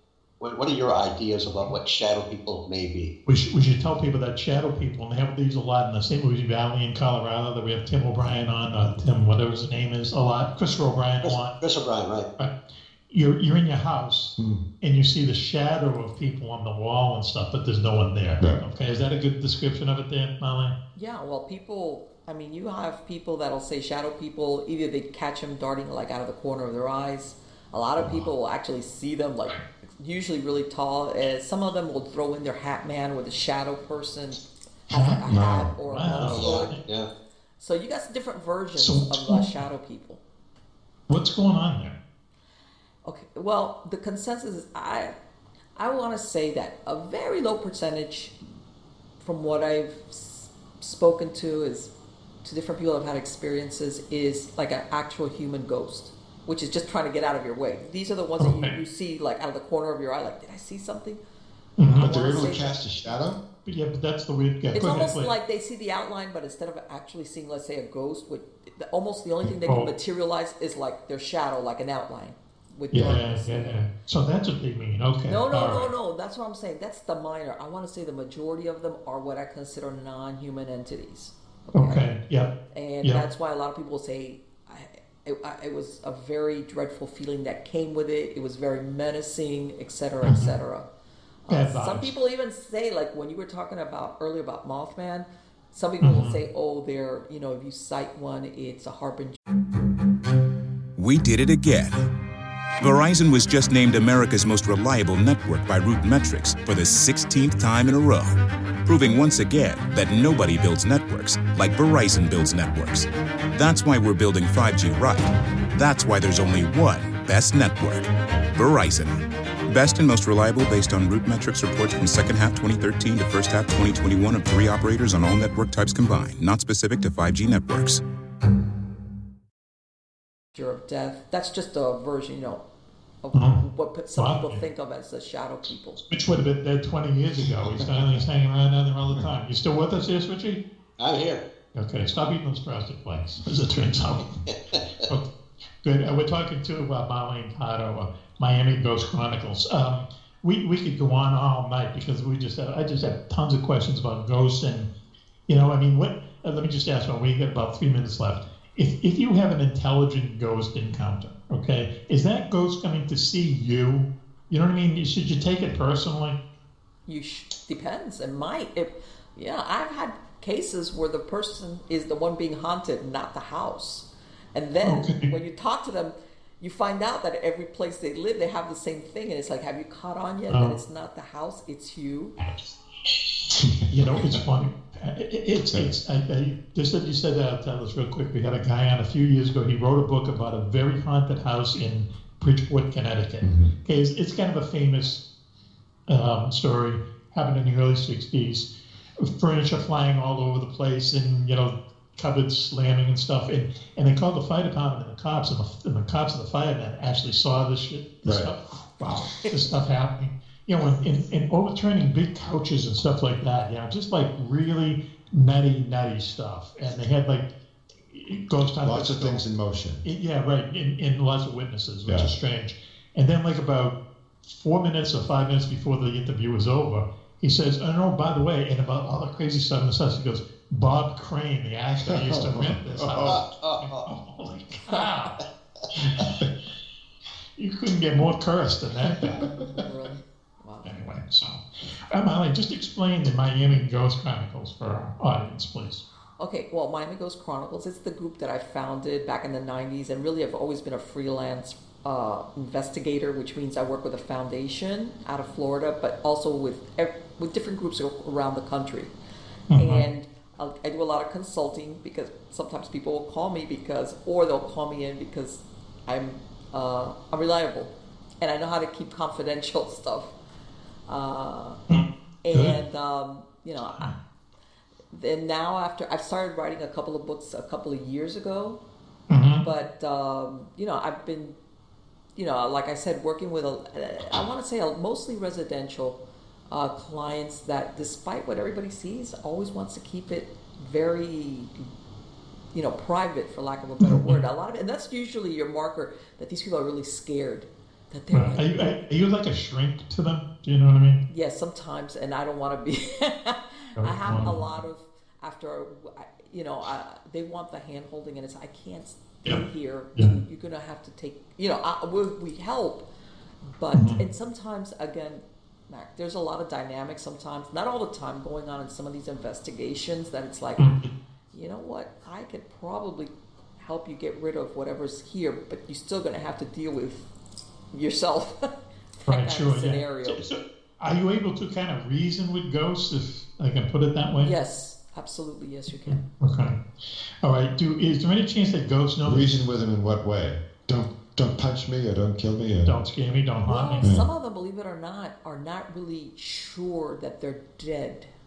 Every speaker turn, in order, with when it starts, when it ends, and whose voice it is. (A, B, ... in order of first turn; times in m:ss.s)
0:00.4-0:03.1 A
0:03.2-0:11.5 B
0:11.2-0:12.3 A
0:13.1-0:20.8 B
0:14.4-0:14.7 C
0:21.0-0:36.7 D
0:28.0-0:28.2 C
0:34.9-0:36.8 B
0:35.3-0:36.4 C
0:36.3-0:37.1 A
0:37.6-0:40.2 D
0:38.8-0:39.5 B
0:41.1-0:42.0 B
0:43.0-0:45.1 D
0:45.8-0:48.3 D
0:49.2-0:51.9 D
0:52.4-1:01.2 D
0:58.4-0:58.7 B
1:01.8-1:02.5 B
1:01.9-1:02.7 D
1:02.0-1:03.4 C
1:03.6-1:05.3 B
1:04.7-1:13.8 D
1:09.6-1:09.9 B
1:12.9-1:15.9 B
1:15.3-1:22.0 D
1:21.7-1:23.2 B
1:22.7-1:30.8 D
1:30.2-1:30.5 B
1:31.5-1:39.4 D
1:31.5-1:32.1 B
1:36.0-1:36.4 B
1:41.0-1:42.1 E
1:42.8-2:08.0 E
2:10.5-2:12.6 D
2:13.2-2:16.0 D
2:13.3-2:13.6 B
2:14.2-2:14.6 B
2:16.1-2:20.6 B
2:21.0-2:21.4 A
2:21.7-2:24.4 B
2:24.5-2:24.8 A
2:25.0-2:25.3 B
2:25.8-2:34.9 B
2:35.5-2:46.4 B
2:47.1-3:02.3 D
2:54.8-2:55.3 B
3:00.5-3:00.8 B
3:03.5-3:04.4 C
3:03.9-3:15.2 B
3:13.4-3:13.7 C
3:16.1-3:18.7 B
3:19.2-3:37.5 B
3:28.2-3:28.5 C
3:38.1-3:39.4 B
3:38.8-3:40.0 C
3:40.0-3:56.5 B
3:42.1-3:42.3 C
3:52.1-3:53.4 C
3:53.2-3:54.1 A
3:57.6-3:59.5 B
3:59.0-3:59.8 C
3:59.6-4:00.9 D
4:00.8-4:06.0 B
4:06.4-4:19.1 D
4:19.7-4:20.0 B
4:19.7-4:30.3 D
4:31.1-4:31.8 D
4:31.9-4:32.8 B
4:32.4-4:34.2 D
4:35.1-4:38.8 D
4:39.3-4:39.6 B
4:39.6-4:41.6 D
4:42.4-4:51.8 D
4:52.7-4:58.8 D
4:54.0-4:54.4 B
4:58.3-5:01.2 B
5:01.3-5:13.0 D
5:04.0-5:04.6 B
5:13.6-5:21.0 D
5:13.9-5:14.2 B
5:20.8-5:21.1 B
5:21.5-5:27.3 D
5:27.9-5:28.7 D
5:29.2-5:30.6 D
5:29.3-5:34.5 B
5:34.4-5:36.2 D
5:36.1-5:36.8 B
5:37.4-5:39.5 B
5:39.2-5:42.9 C
5:42.8-5:44.2 B
5:43.7-5:48.3 D
5:44.0-5:44.3 C